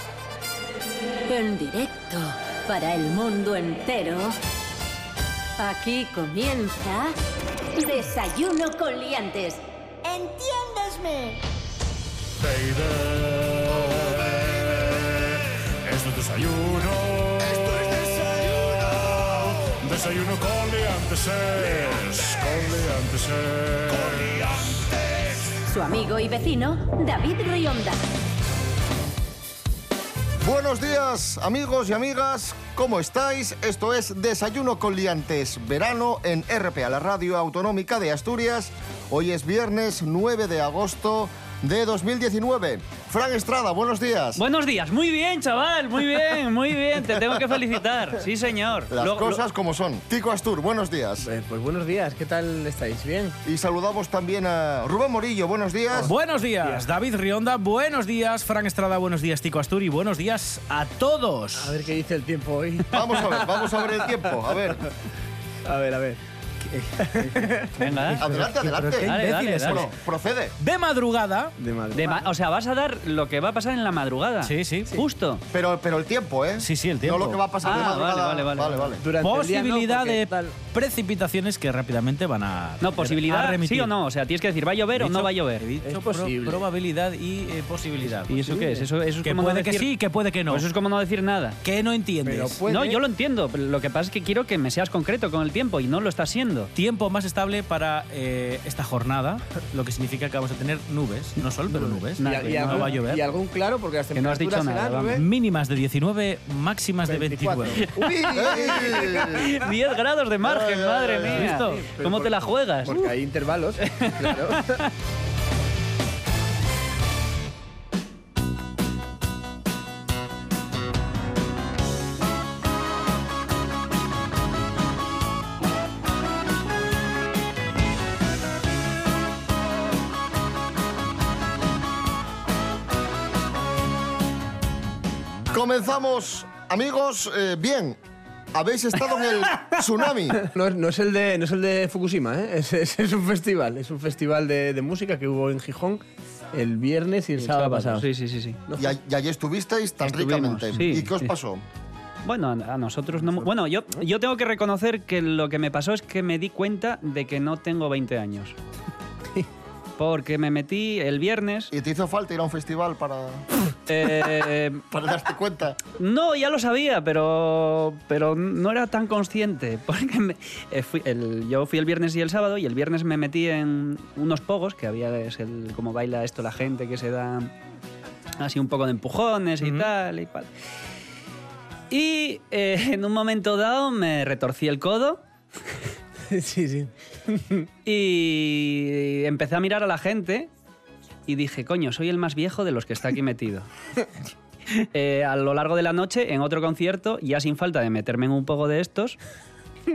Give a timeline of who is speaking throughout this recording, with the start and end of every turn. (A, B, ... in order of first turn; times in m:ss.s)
0:01.3-0:04.4 A
0:05.6-0:07.1 A
0:07.8-0:11.4 A
0:12.4-0:24.7 B
0:25.7-0:28.0 A
0:30.4-0:44.4 C
0:44.4-0:49.4 D
0:48.9-0:51.3 C
0:51.2-0:53.3 E
0:53.4-0:56.1 C
0:56.0-1:01.8 F
1:01.6-1:04.0 E
1:02.9-1:04.8 C
1:05.6-1:08.3 E
1:07.8-1:08.2 D
1:08.2-1:10.5 C
1:08.3-1:09.9 F
1:09.0-1:09.8 D
1:10.6-1:11.5 F
1:11.6-1:12.3 E
1:11.9-1:15.4 D
1:14.4-1:14.9 F
1:15.5-1:19.0 C
1:16.6-1:17.4 F
1:17.6-1:18.9 D
1:19.0-1:20.6 E
1:19.2-1:23.9 F
1:22.8-1:25.6 D
1:25.0-1:28.5 F
1:25.8-1:26.6 E
1:28.3-1:29.9 D
1:28.3-1:28.9 E
1:29.2-1:30.7 F
1:30.5-1:31.6 D
1:31.6-1:32.6 F
1:32.2-1:33.0 E
1:32.7-1:36.7 D
1:36.7-1:43.2 F
1:41.7-1:45.2 E
1:42.2-1:42.9 D
1:44.1-1:45.2 D
1:45.1-1:47.9 F
1:47.0-1:49.6 E
1:48.3-1:49.5 C
1:49.3-1:53.0 D
1:50.4-1:51.4 C
1:51.2-1:54.8 E
1:51.3-1:51.8 F
1:53.8-1:54.9 D
2:15.5-2:18.0 C
2:18.5-2:20.4 C
2:20.4-2:26.0 E
2:26.5-2:28.1 E
2:27.4-2:28.6 D
2:28.8-2:31.6 C
2:30.0-2:31.3 D
2:32.2-2:38.6 D
2:40.0-2:41.7 D
2:41.7-2:43.4 C
2:43.9-2:44.8 D
2:44.9-2:45.8 C
2:46.0-2:57.5 D
2:58.4-3:00.5 D
2:59.6-2:59.9 F
3:01.9-3:05.2 D
3:06.3-3:07.7 E
3:07.8-3:10.5 D
3:11.3-3:13.7 D
3:14.8-3:19.2 D